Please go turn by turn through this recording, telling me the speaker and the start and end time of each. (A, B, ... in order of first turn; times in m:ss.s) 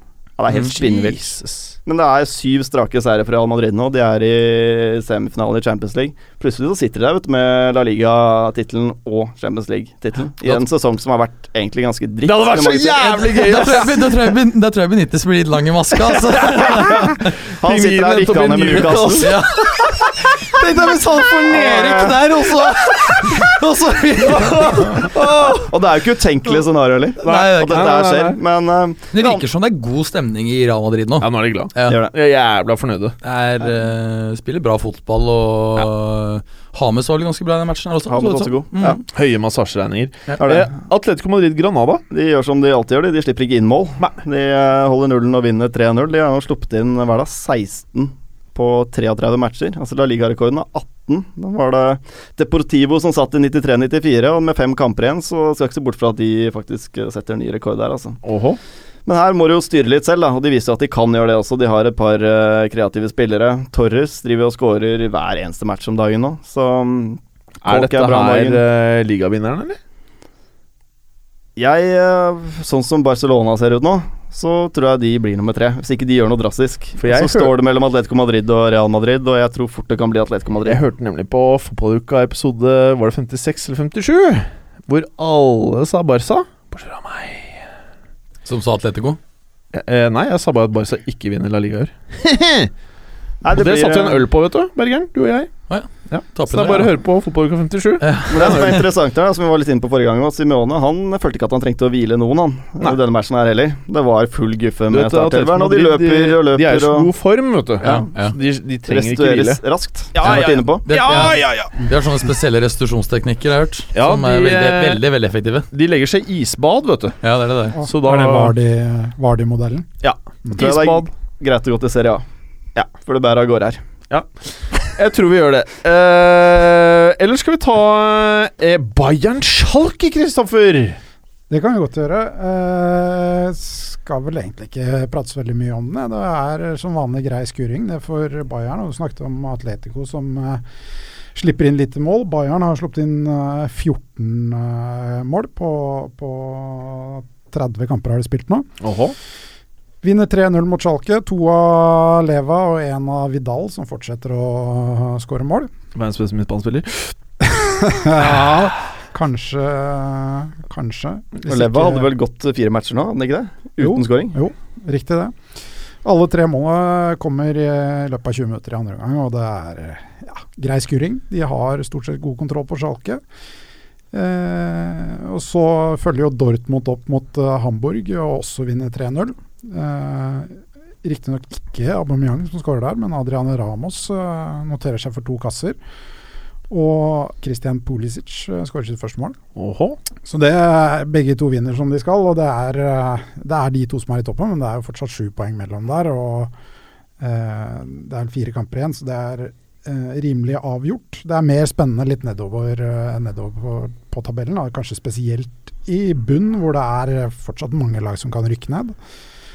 0:00.4-0:01.3 A
0:00.5-0:01.8 B
0:01.9-0:13.7 A
0:12.2-0:14.0 B
0:13.4-0:17.3 C
0:16.5-0:17.0 B
0:17.6-0:19.3 A
0:17.6-0:20.0 B
0:19.2-0:25.1 C
0:21.6-0:21.8 A
0:21.9-0:22.1 B
0:24.2-0:25.7 B
0:24.9-0:29.4 A
0:27.2-0:28.4 B
0:27.2-0:27.9 C
0:29.1-0:32.0 C
0:31.2-0:33.2 B
0:31.8-0:32.1 A
0:33.2-0:39.0 C
0:38.1-0:39.0 A
0:39.0-0:42.0 B
0:40.4-0:40.7 A
0:42.1-0:58.2 A
0:58.2-0:58.6 B
0:59.1-1:08.6 A
1:07.6-1:09.8 B
1:11.6-1:20.8 A
1:17.0-1:17.5 B
1:20.6-1:27.6 B
1:28.4-1:29.2 C
1:29.7-1:32.7 B
1:33.4-1:34.2 A
1:33.5-1:38.8 B
1:35.7-1:37.0 C
1:38.0-1:38.8 C
1:38.3-1:47.1 A
1:44.9-1:51.9 B
1:47.8-1:48.1 A
1:47.8-1:48.3 C
1:48.9-1:50.9 A
1:50.2-1:55.7 C
1:53.9-1:55.0 B
1:55.7-1:57.2 B
1:57.2-1:57.8 C
1:57.8-1:58.6 B
1:57.8-1:59.9 D
2:00.0-2:01.1 B
2:00.5-2:03.8 A
2:04.1-2:11.0 B
2:11.5-2:20.6 D
2:21.3-2:28.7 D
2:28.8-2:29.2 B
2:30.0-2:35.7 D
2:36.0-2:37.2 B
2:37.4-2:42.1 D
2:41.5-2:44.4 A
2:43.8-2:45.4 D
2:46.0-2:53.2 D
2:54.1-3:05.8 D
3:06.7-3:09.4 D
3:09.6-3:10.0 B
3:10.2-3:16.5 D
3:17.2-3:29.0 D